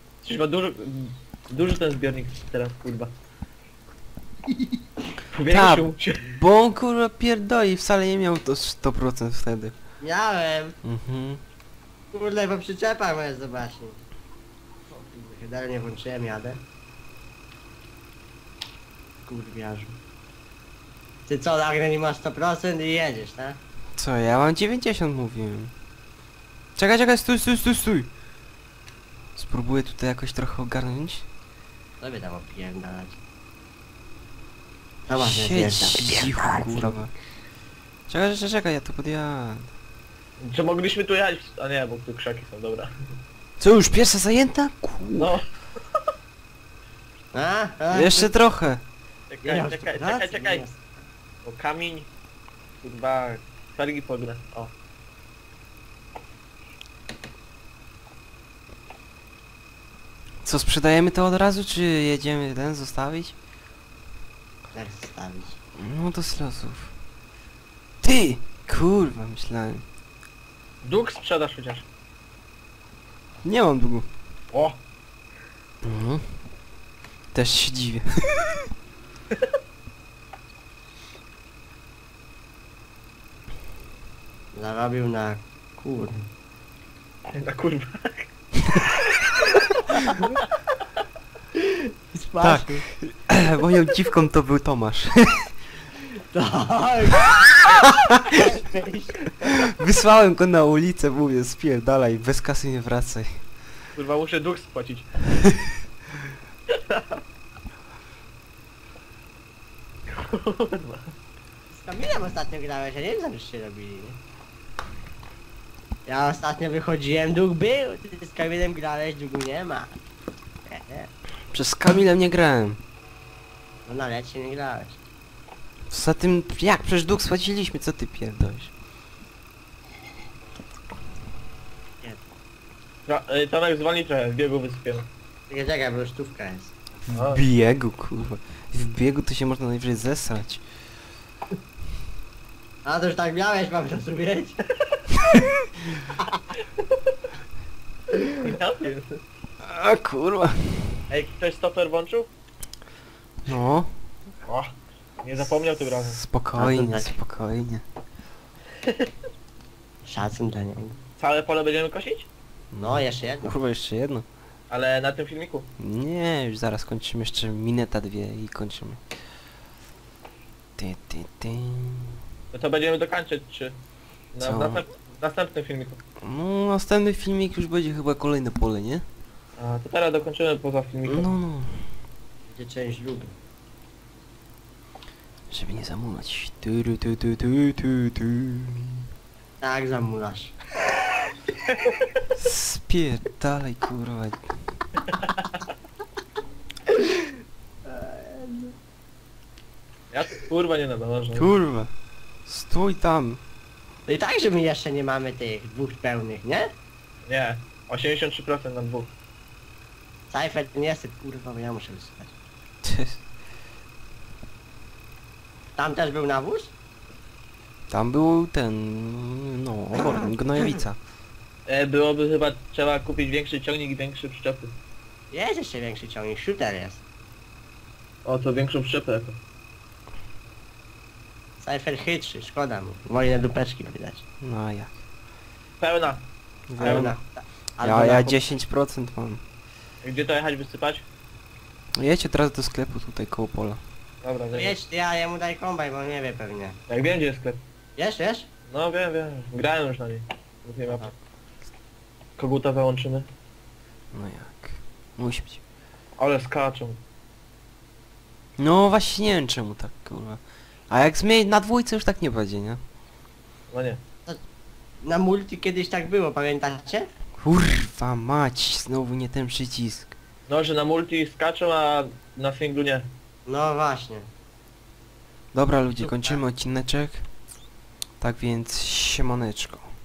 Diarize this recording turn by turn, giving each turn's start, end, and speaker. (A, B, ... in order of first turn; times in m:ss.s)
0:00.2-0:03.1 A
0:05.3-0:06.3 A
0:05.5-0:09.8 B
0:10.0-0:10.8 C
0:10.8-0:11.4 B
0:12.1-0:14.0 C
0:14.9-0:16.6 C
0:19.3-0:20.0 C
0:21.3-0:23.6 C
0:24.0-0:25.7 B
0:26.8-0:28.1 B
0:29.4-0:31.3 B
0:32.0-0:33.2 C
0:35.1-0:37.0 C
0:35.2-0:37.1 B
0:38.1-0:39.7 B
0:40.4-0:42.9 A
0:43.6-0:45.4 B
0:45.2-0:45.4 A
0:47.3-0:48.3 C
0:47.9-0:48.8 B
0:49.3-0:50.6 A
0:49.4-0:50.9 C
0:51.4-0:52.1 A
0:52.8-0:54.7 A
1:00.4-1:03.4 B
1:04.7-1:05.6 C
1:05.8-1:06.9 B
1:08.0-1:09.8 B
1:10.8-1:11.9 A
1:13.4-1:14.1 B
1:14.5-1:14.8 A
1:15.8-1:16.2 B
1:17.3-1:18.5 B
1:24.5-1:26.3 C
1:27.3-1:28.3 A
1:29.3-1:30.3 A
1:31.6-1:32.8 C
1:32.4-1:35.6 B
1:36.3-1:39.3 C
1:39.8-1:43.4 B
1:44.0-1:45.2 A
1:46.7-1:47.2 A
1:50.1-1:51.1 A
1:51.7-1:54.2 C
1:56.1-2:00.0 C
2:00.7-2:01.1 C
2:01.5-2:02.8 B
2:03.9-2:05.0 C
2:05.9-2:08.7 B
2:13.1-2:15.1 A
2:15.5-2:16.7 C
2:17.0-2:20.6 B
2:17.1-2:17.4 A
2:22.8-2:24.6 C
2:28.4-2:29.2 A
2:29.6-2:31.0 B
2:31.1-2:32.3 A
2:33.4-2:33.9 B
2:34.5-2:36.2 A
2:36.0-2:37.8 B
2:36.6-2:37.1 C
2:40.0-2:41.0 C
2:41.2-2:42.3 A
2:42.7-2:44.3 B
2:42.8-2:43.5 C
2:44.7-2:45.7 A
2:45.8-2:49.0 B
2:50.8-2:52.2 B
2:52.5-2:53.8 A
2:54.3-2:56.0 A
2:54.4-2:54.8 B
2:56.2-2:59.0 B
2:59.6-3:01.4 A
3:01.1-3:01.9 B
3:02.5-3:03.3 C
3:05.5-3:09.0 B
3:09.6-3:10.6 C
3:12.4-3:14.5 B
3:17.9-3:18.7 C
3:20.1-3:21.5 A
3:21.4-3:21.9 B
3:22.5-3:23.4 B
3:24.1-3:26.7 C
3:27.3-3:29.1 A
3:30.3-3:32.3 C
3:32.8-3:33.2 B
3:35.8-3:36.7 C
3:37.9-3:41.0 B
3:40.0-3:40.3 C
3:41.7-3:44.7 A
3:45.3-3:47.0 C
3:48.2-3:49.4 A
3:51.6-3:54.2 C
3:54.4-3:54.9 B
3:55.8-3:56.2 A
3:56.7-3:57.2 B
3:56.8-3:57.2 A
3:56.8-3:58.4 C
3:57.8-3:59.4 B
4:00.0-4:01.0 A
4:02.0-4:03.8 B
4:04.2-4:04.8 A
4:04.5-4:06.8 C
4:06.9-4:07.6 A
4:08.0-4:08.5 C
4:08.7-4:11.1 A
4:12.4-4:13.3 A
4:14.1-4:15.6 B
4:16.2-4:17.0 A
4:18.6-4:22.8 B
4:23.7-4:24.0 A
4:25.0-4:27.1 C
4:27.4-4:30.1 B
4:30.5-4:33.1 A
4:33.5-4:34.3 C
4:35.5-4:37.3 B
4:36.0-4:36.4 C
4:38.2-4:39.9 B